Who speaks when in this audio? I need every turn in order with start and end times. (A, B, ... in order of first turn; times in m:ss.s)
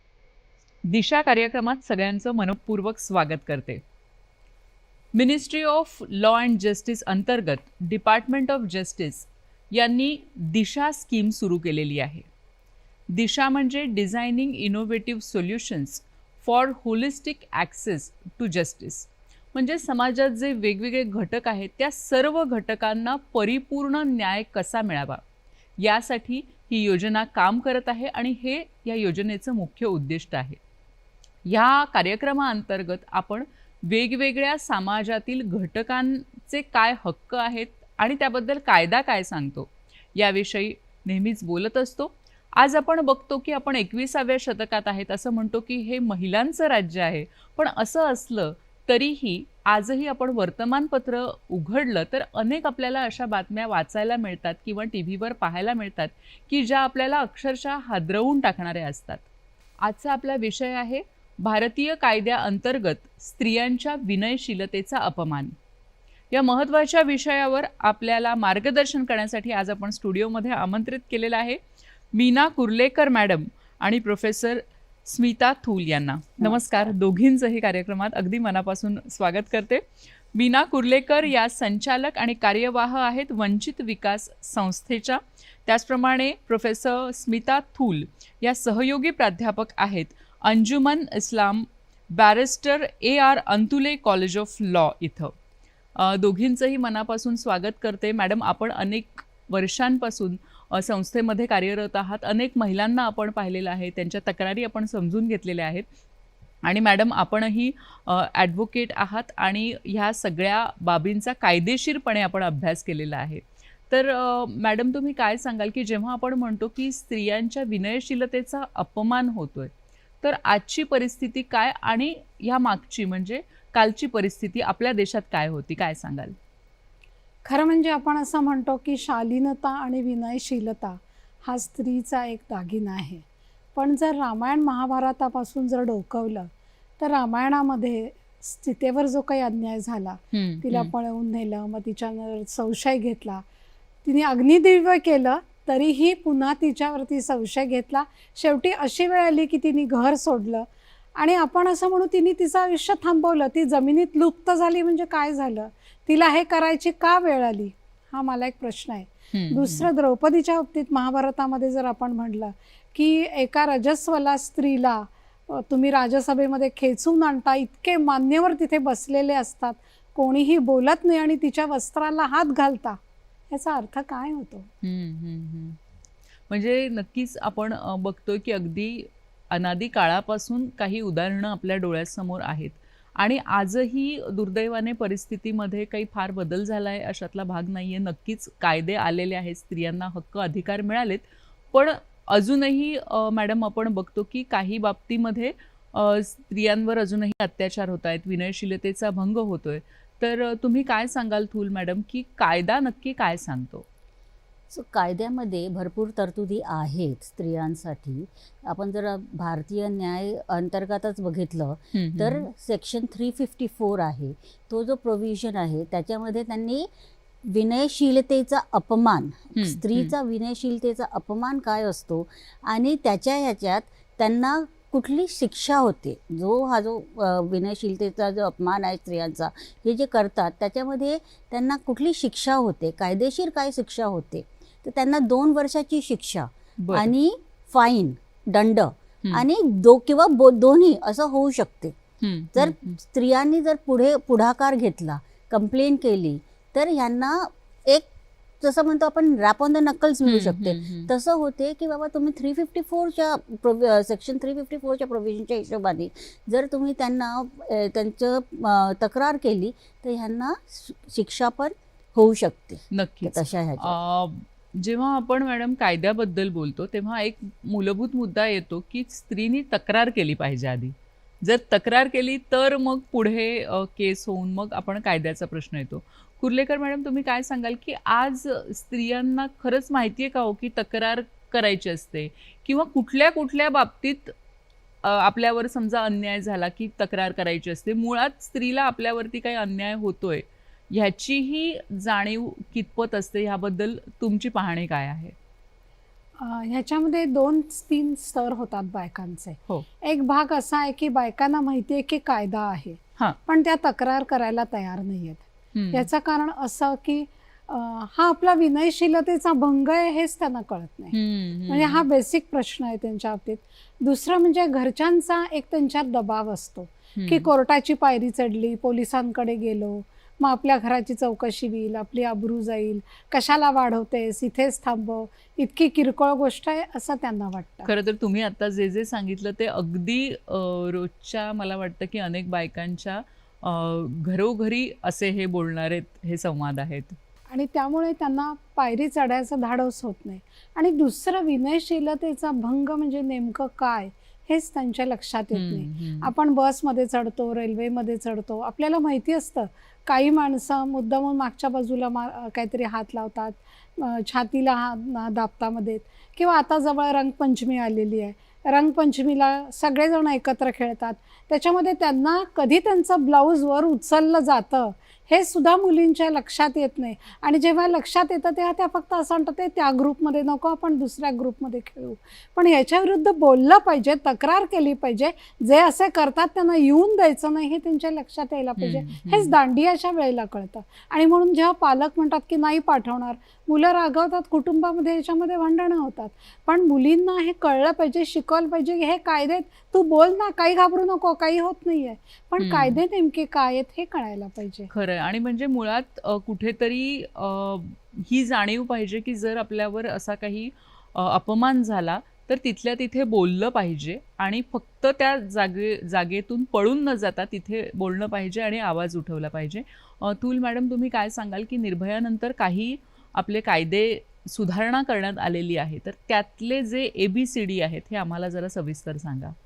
0:00.9-0:03.8 A
0:05.1-0:12.2 A
0:13.1-0:25.2 A
0:25.8-0:30.6 A
0:31.4-0:59.2 A
0:59.8-1:05.5 A
1:06.3-1:11.6 A
1:12.1-1:35.4 A
1:16.4-1:16.9 B
1:36.0-1:45.8 A
1:46.6-1:59.7 A
2:00.2-2:06.4 A
2:07.4-2:13.2 C
2:13.8-2:23.4 C
2:20.3-2:20.9 A
2:24.0-2:30.6 C
2:31.2-2:53.0 C
2:39.3-2:39.9 A
2:53.5-2:54.7 C
2:54.8-2:55.8 A
2:56.5-3:23.8 A
3:24.7-3:36.9 B
3:31.9-3:32.5 A
3:37.4-4:02.0 B
3:39.6-3:40.1 A
3:56.8-3:57.1 A
4:02.2-4:03.0 A
4:02.5-4:08.1 B
4:08.6-4:24.0 B
4:10.2-4:11.1 A
4:22.9-4:44.3 A
4:45.0-4:55.3 A
4:56.4-5:11.1 C
5:05.7-5:06.1 A
5:11.1-5:12.0 A
5:11.7-5:27.9 C
5:17.2-5:17.5 A
5:27.8-5:37.2 A
5:37.5-6:34.9 C
5:45.5-5:46.3 A
6:18.8-6:19.5 A
6:32.6-6:33.0 A
6:34.9-6:59.5 A